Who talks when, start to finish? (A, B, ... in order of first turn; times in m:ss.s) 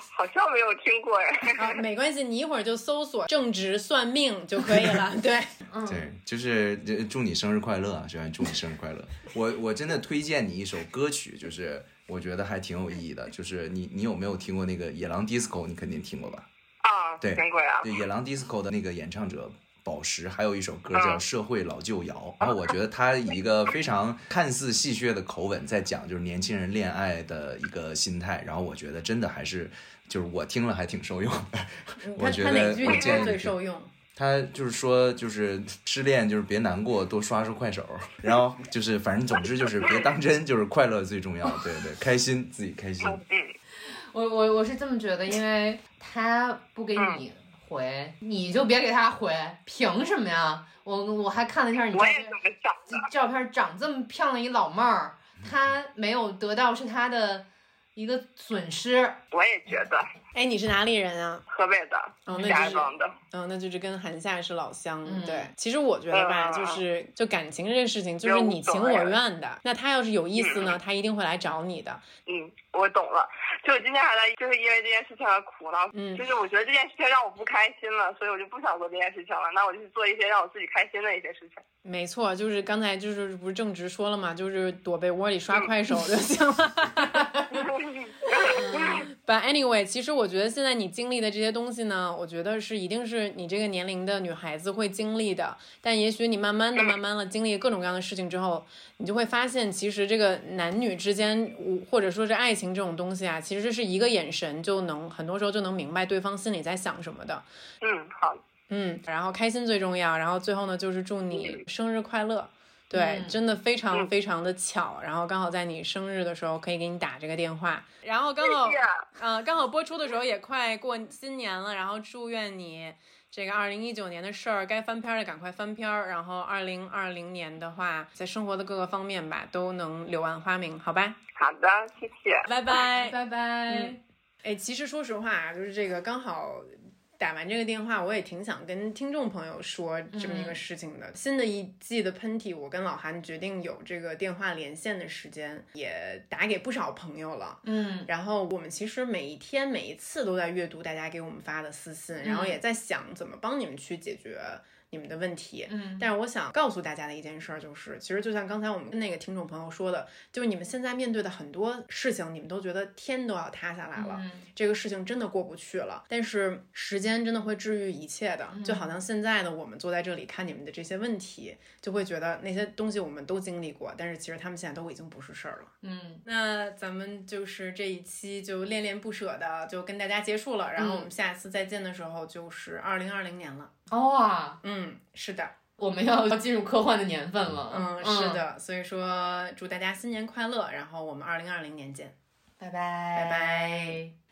0:00.1-0:01.8 A
0:01.6-0:05.5 B
0:05.7-0:06.1 C
0:05.8-0:16.5 D
0:16.8-0:17.9 A
0:17.2-0:33.6 D
0:20.9-0:21.2 A
0:32.0-0:33.9 B
0:32.9-0:33.2 A
0:34.1-0:43.2 D
0:39.8-0:40.1 A
0:43.0-0:43.5 A
0:43.9-0:52.4 C
0:47.0-0:47.2 A
0:51.9-0:53.0 A
0:52.9-0:59.2 C
0:59.3-1:00.0 A
1:00.3-1:01.4 B
1:01.5-1:03.1 A
1:02.3-1:12.1 B
1:02.3-1:02.7 C
1:05.0-1:05.5 C
1:06.1-1:06.8 A
1:08.2-1:09.2 A
1:10.4-1:10.7 A
1:12.3-1:21.6 A
1:15.9-1:16.3 B
1:21.8-1:27.7 B
1:27.5-1:29.1 A
1:28.5-1:47.4 B
1:47.8-1:48.4 A
1:48.7-2:11.2 B
1:51.3-1:51.6 A
1:52.9-1:53.4 C
1:58.4-1:59.0 A
2:11.3-2:12.4 A
2:12.4-2:55.7 B
2:12.7-2:14.0 C
2:20.1-2:20.6 C
2:27.6-2:28.1 C
2:32.2-2:32.6 C
2:35.7-2:36.1 C
2:44.0-2:44.5 C
2:48.5-2:48.8 C
2:55.8-2:56.2 C
2:56.2-3:03.7 B
3:00.8-3:01.1 C
3:03.9-3:04.6 C
3:04.6-3:05.5 B
3:05.8-3:08.4 C
3:07.7-3:12.1 B
3:12.6-3:14.1 C
3:13.1-3:14.0 B